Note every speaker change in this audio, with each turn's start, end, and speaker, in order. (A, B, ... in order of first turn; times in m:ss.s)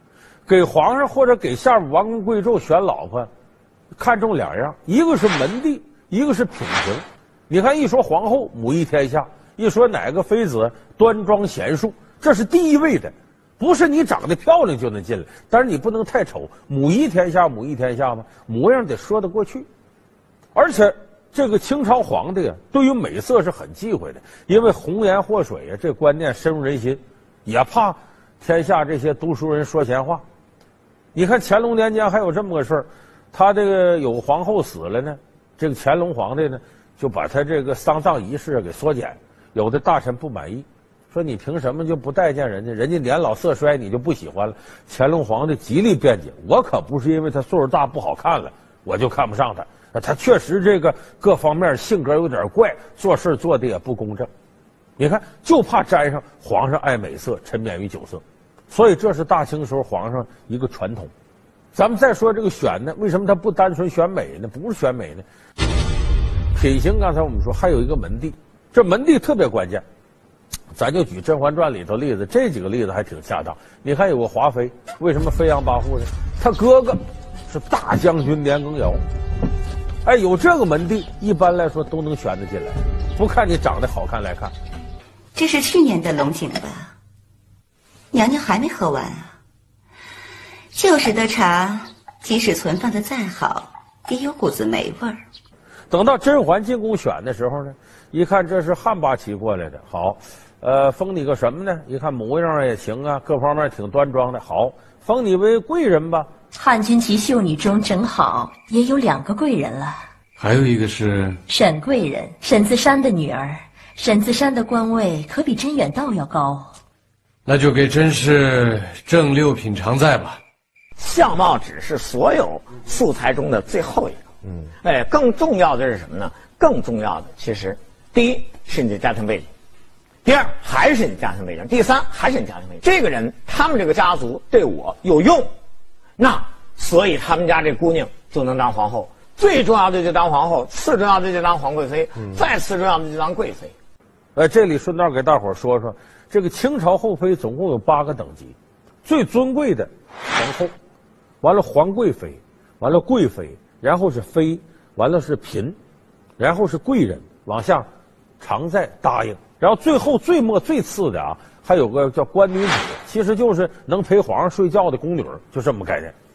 0:00.5-0:03.3 A
0:04.0-0:19.7 A
0:20.6-0:30.2 A
0:31.2-0:54.3 A
0:55.0-1:01.1 A
1:01.7-1:05.2 A
1:06.5-1:09.8 A
1:10.8-1:19.0 A
1:20.0-1:24.5 A
1:25.4-1:26.9 B
1:28.1-1:29.3 B
1:30.8-1:35.2 B
1:35.9-1:46.3 A
1:46.6-1:50.0 C
1:50.4-1:51.4 D
1:51.5-1:56.7 C
1:57.5-2:00.4 D
2:01.0-2:04.3 E
2:04.8-2:09.5 E
2:10.2-2:15.4 E
2:16.2-2:23.7 E
2:24.4-2:30.7 A
2:31.4-2:35.8 A
2:36.4-2:37.9 A
2:38.4-2:46.1 A